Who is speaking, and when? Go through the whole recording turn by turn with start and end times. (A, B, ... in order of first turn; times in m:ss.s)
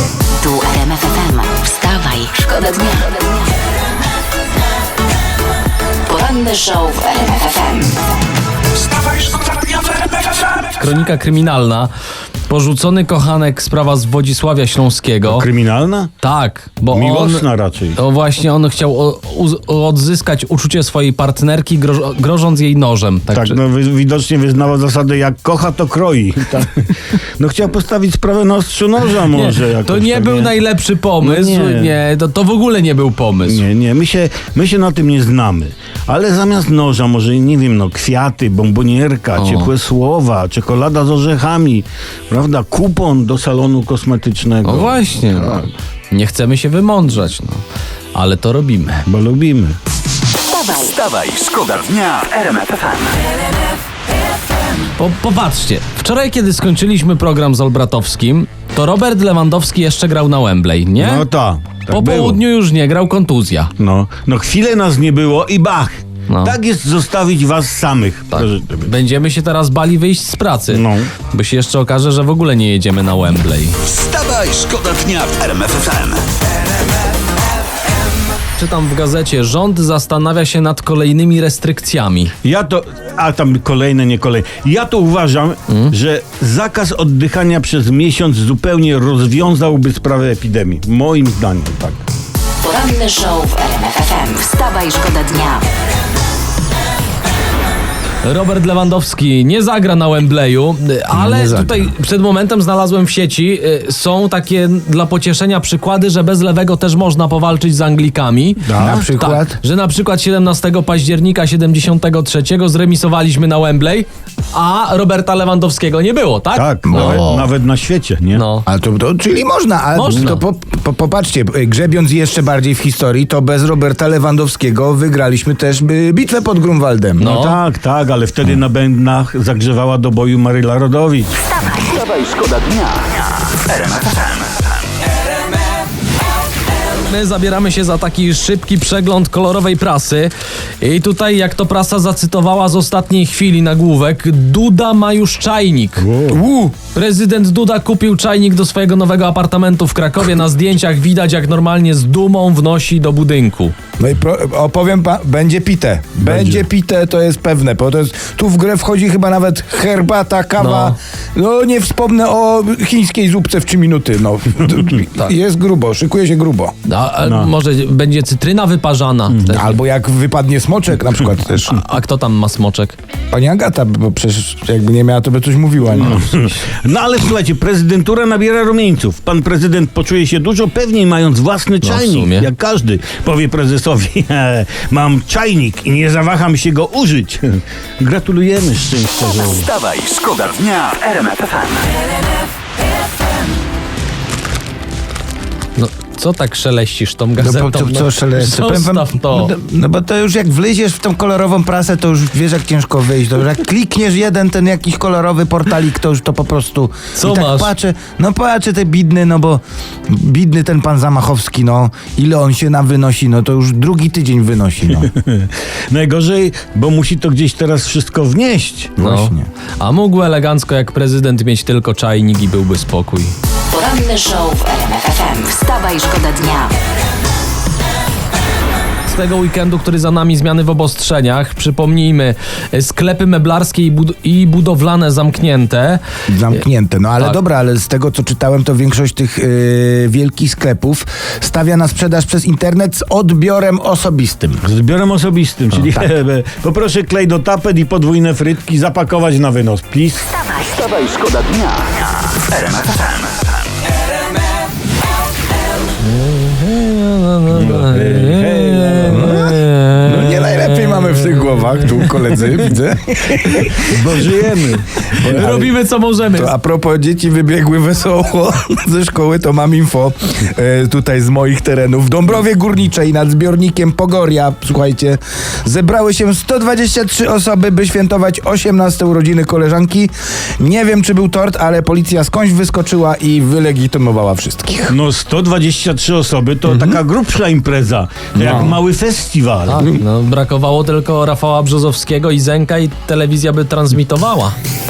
0:00.4-0:03.3 A
0:06.0-0:08.0 A
0:09.4-0:10.0 A
0:10.6-0:11.9 B
0:12.5-0:15.5 B
0:15.2-0:16.1 C
0:16.2-0:23.6 B
0:16.9-0:18.0 C
0:23.3-0:30.6 C
0:29.3-0:33.6 B
0:31.2-0:32.0 C
0:33.4-0:45.7 C
0:39.4-0:39.7 B
0:44.6-0:47.6 B
0:48.1-0:49.0 B
0:49.1-0:49.8 C
0:50.5-0:51.5 A
0:51.4-0:52.9 C
0:51.7-0:53.1 D
0:55.0-1:01.2 B
1:01.0-1:02.4 C
1:01.9-1:03.7 B
1:03.8-1:08.9 C
1:06.3-1:06.6 B
1:08.3-1:13.8 B
1:10.7-1:11.1 C
1:14.0-1:16.2 C
1:14.1-1:16.2 D
1:18.6-1:22.3 B
1:22.4-1:32.0 C
1:25.7-1:25.9 B
1:32.6-1:35.6 A
1:38.2-1:57.3 B
1:41.1-1:41.9 E
1:48.6-1:49.1 C
1:48.8-1:49.6 E
1:56.5-1:58.4 C
1:56.8-1:57.5 E
1:58.3-1:58.6 B
1:58.6-2:07.3 E
1:59.9-2:00.4 B
2:07.2-2:07.6 B
2:07.2-2:11.6 C
2:11.6-2:12.1 A
2:12.1-2:13.0 D
2:17.0-2:26.0 B
2:26.0-2:26.4 C
2:26.3-2:26.7 E
2:26.9-2:33.7 B
2:34.0-2:46.7 E
2:36.2-2:36.6 C
2:40.6-2:41.0 B
2:46.8-2:49.8 B
2:47.2-2:47.5 C
2:49.3-2:49.6 C
2:49.5-2:51.8 E
2:51.6-2:53.0 B
2:53.3-2:56.5 E
2:55.9-3:11.6 C
3:01.8-3:02.5 B
3:09.8-3:11.7 D
3:15.8-3:19.5 B
3:17.4-3:35.1 E
3:27.2-3:27.7 B
3:34.9-3:39.0 C
3:39.0-3:39.5 E
3:39.0-3:43.3 B
3:43.7-3:46.7 A
3:49.1-3:56.0 B
3:56.3-4:04.6 E
4:04.6-4:10.4 C
4:10.4-4:11.5 A
4:11.4-4:11.9 D
4:16.0-4:22.0 B
4:17.5-4:19.3 C
4:19.0-4:24.5 E
4:23.4-4:25.5 C
4:25.2-4:25.7 E
4:25.2-4:26.5 B
4:26.3-4:45.0 E
4:44.9-4:49.9 C
4:46.6-4:47.0 E
4:48.4-4:48.8 E
4:49.7-4:54.6 B
4:49.8-4:50.0 E